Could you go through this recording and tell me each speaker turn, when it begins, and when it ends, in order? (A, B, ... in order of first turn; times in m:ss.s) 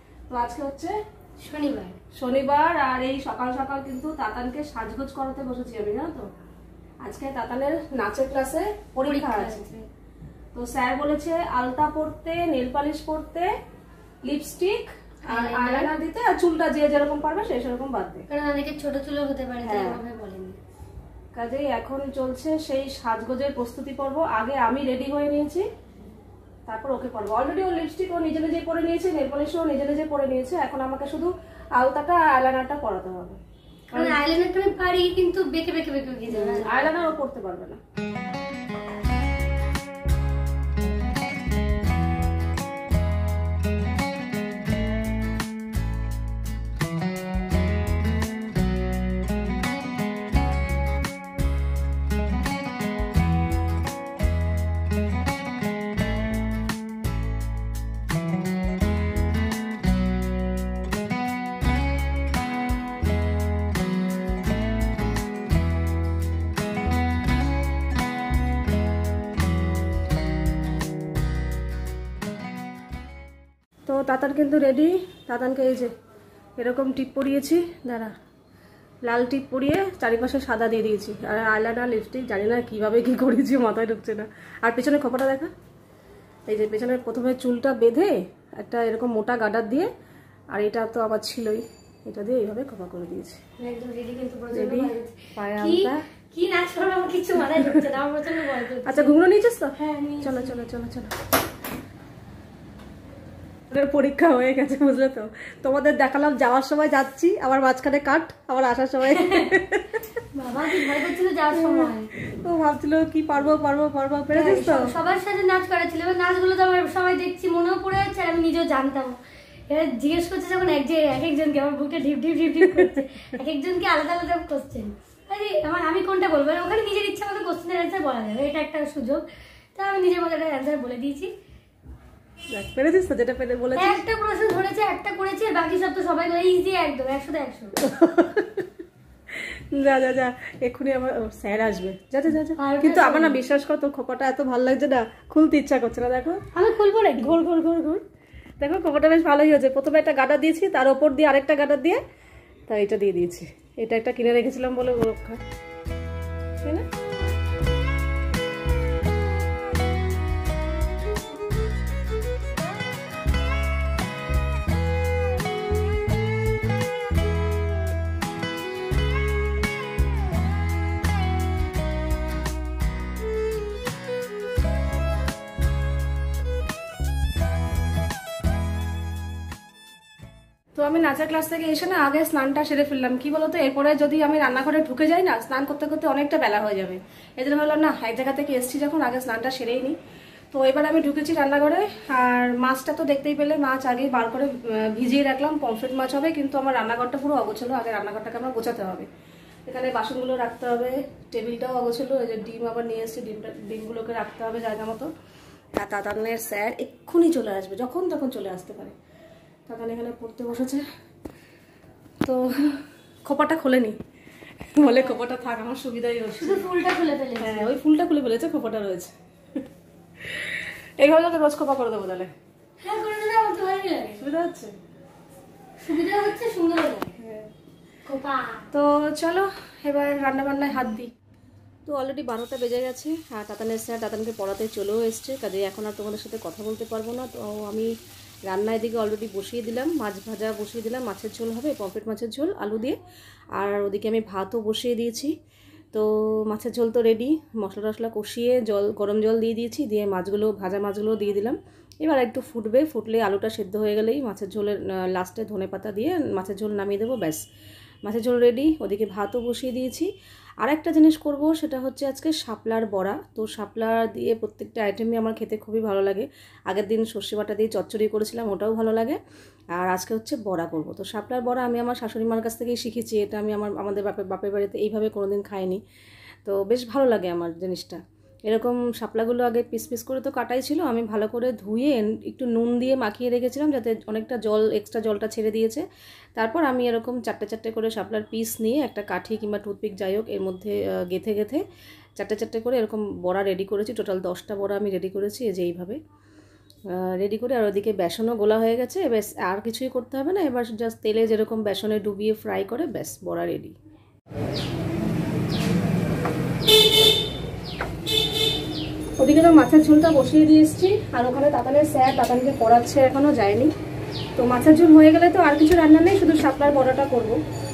0:00.3-0:01.0 A
0:01.4-0:02.0 B
0:02.1-0:06.3 A
0:07.0-0:09.6 A
0:09.0-0:09.8 B
0:10.5-0:13.5 A
0:14.2-0:18.2 A
0:15.2-0:15.9 B
0:18.3-0:20.6 B
0:19.6-0:20.0 A
0:21.4-0:25.6 A
0:26.7-0:33.4 A
0:33.9-0:34.2 A
0:33.9-0:36.7 B
0:36.3-0:37.8 A
1:13.9-1:15.9 A
1:16.6-1:18.1 A
1:19.0-1:25.5 A
1:26.5-1:29.9 A
1:30.5-1:33.4 A
1:33.6-1:39.2 B
1:34.5-1:36.0 A
1:37.5-1:37.8 A
1:38.8-1:41.1 A
1:39.8-1:40.6 B
1:43.7-1:50.0 A
1:49.1-1:49.5 B
1:50.3-1:52.1 B
1:51.5-1:54.9 A
1:54.3-2:09.2 B
2:02.6-2:03.2 A
2:09.8-2:11.3 B
2:12.5-2:14.0 A
2:13.8-2:17.8 B
2:17.8-2:18.6 A
2:19.3-2:26.4 A
2:22.6-2:23.4 B
2:26.5-2:27.4 B
2:27.2-2:28.0 A
2:28.6-2:32.0 A
2:32.7-2:35.4 A
3:00.8-3:10.0 A
3:10.5-3:19.1 A
3:19.7-3:25.1 A
3:25.8-3:29.0 A
3:29.7-3:30.8 A
3:32.2-3:34.0 A
3:34.7-3:36.6 A
3:36.4-3:37.7 B
3:37.4-3:39.1 A
3:40.2-3:42.3 A
3:42.8-3:44.2 B
3:44.2-3:44.7 A
3:45.8-3:47.1 B
3:47.2-3:47.5 A
3:48.0-3:48.6 B
3:48.7-3:51.1 A
3:51.8-3:57.9 A
3:58.5-4:03.0 A
4:03.6-4:05.3 A
4:05.9-4:17.4 A
4:18.0-4:20.1 A
4:20.6-4:29.2 A
4:29.8-4:35.8 A
4:36.4-4:45.8 A
4:46.4-4:51.6 A
4:52.2-4:56.0 A
4:56.9-5:03.7 A
5:09.2-5:13.7 A
5:14.4-5:17.4 A